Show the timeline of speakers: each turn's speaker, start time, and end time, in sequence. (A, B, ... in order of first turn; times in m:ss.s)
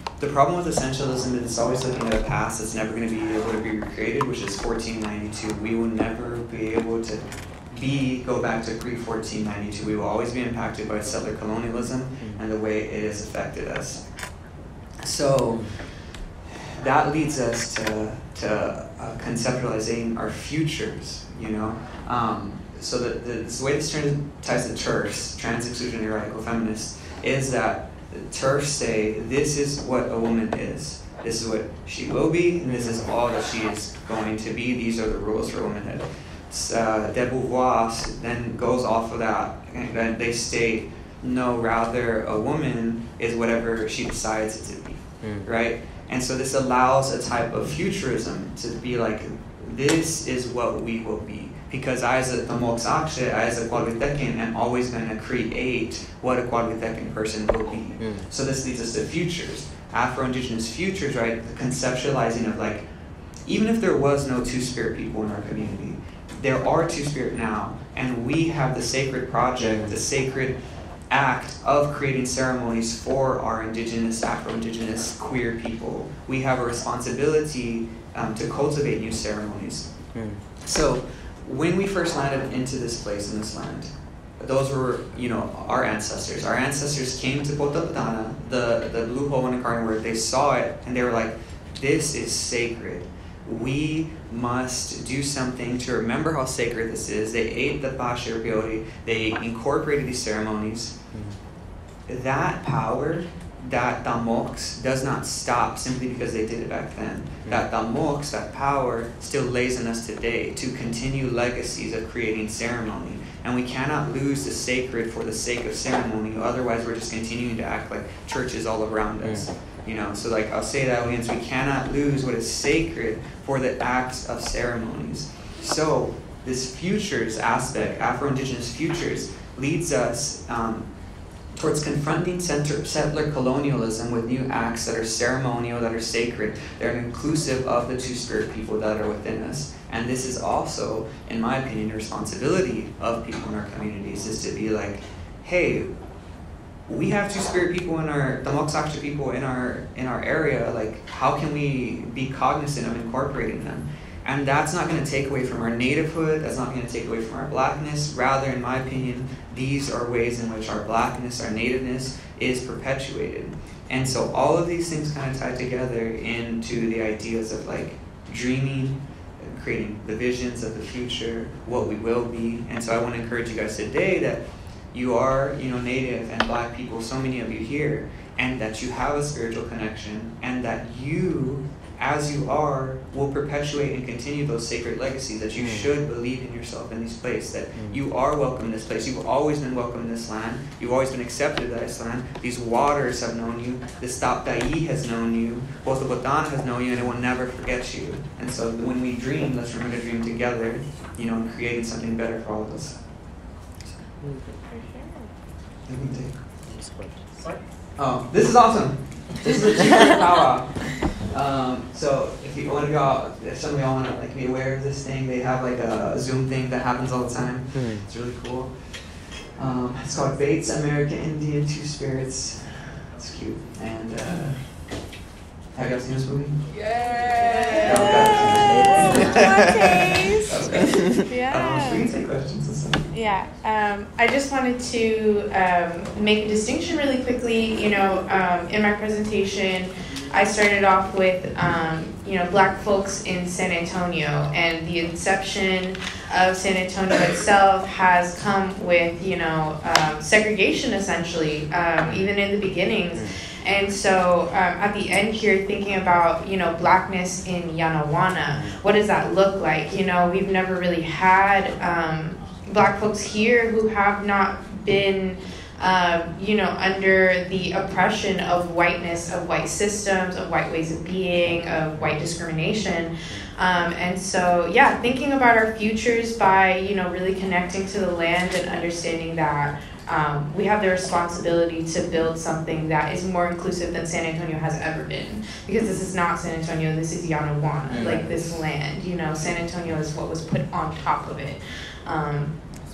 0:00.2-0:14.0 A
0:12.2-0:12.4 B
0:15.0-0:15.8 A
0:16.5-1:02.8 A
0:45.2-0:45.5 B
0:58.0-0:58.3 B
1:03.5-1:10.6 A
1:11.1-1:19.8 A
1:20.2-1:20.4 B
1:20.6-1:40.9 A
1:41.1-1:41.4 B
1:42.1-2:10.9 A
2:11.6-2:25.9 A
2:26.9-3:23.0 A
3:05.6-3:05.9 B
3:07.8-3:08.0 B
3:25.9-3:26.4 A
3:26.7-3:27.1 B
3:28.0-3:38.7 A
3:37.7-3:38.1 B
3:39.6-3:44.7 A
3:45.7-3:46.7 A
3:47.0-3:52.1 C
3:47.8-3:49.4 A
3:48.5-3:49.4 B
3:50.3-3:53.1 A
3:53.1-4:52.6 C
4:47.9-4:48.2 B